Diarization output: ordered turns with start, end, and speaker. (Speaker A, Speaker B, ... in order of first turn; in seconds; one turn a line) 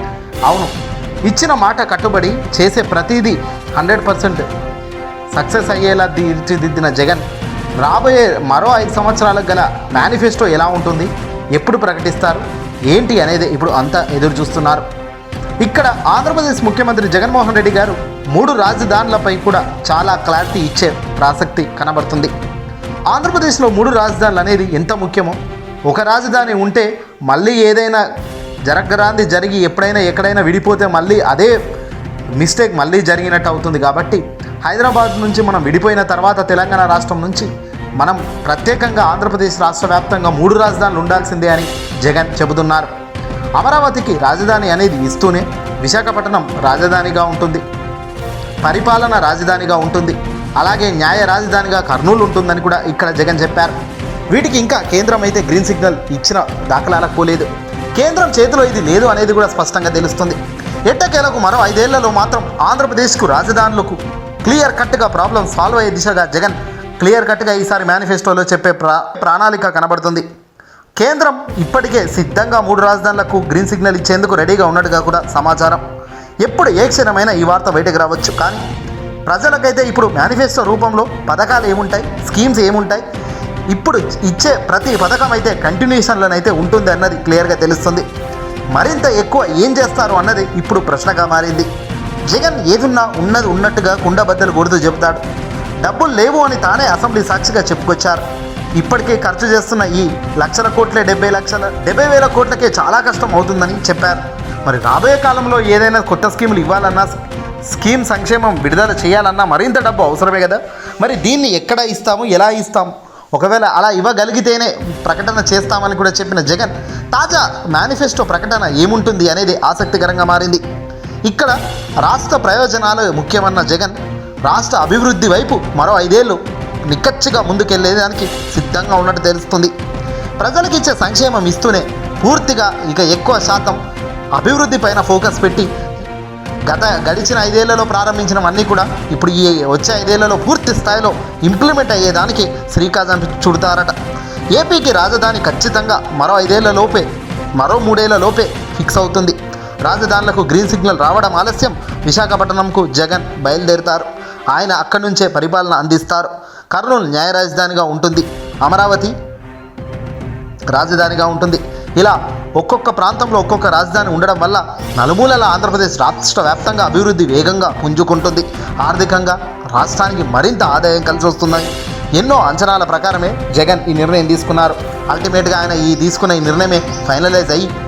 Speaker A: 0.5-0.7
Speaker A: 1.3-4.5
Speaker A: 5.3-7.2
Speaker A: 7.8-14.8
Speaker A: 15.6-22.3
Speaker A: 23.1-28.0
Speaker A: 28.6-31.6
Speaker A: 32.4-42.9
Speaker A: 43.6-47.6
Speaker A: 48.6-53.8
Speaker A: 54.3-70.3
Speaker A: 71.0-75.8
Speaker A: 76.4-78.6
Speaker A: 79.3-83.0
Speaker A: 83.7-88.1
Speaker A: 88.7-91.7
Speaker A: 92.3-95.2
Speaker A: 95.8-98.2
Speaker A: 98.8-107.1
Speaker A: 107.7-120.6
Speaker A: 121.3-129.7
Speaker A: 130.4-133.8
Speaker A: 134.3-135.7
Speaker A: 136.7-143.9
Speaker A: 144.5-159.1
Speaker A: 160.7-177.7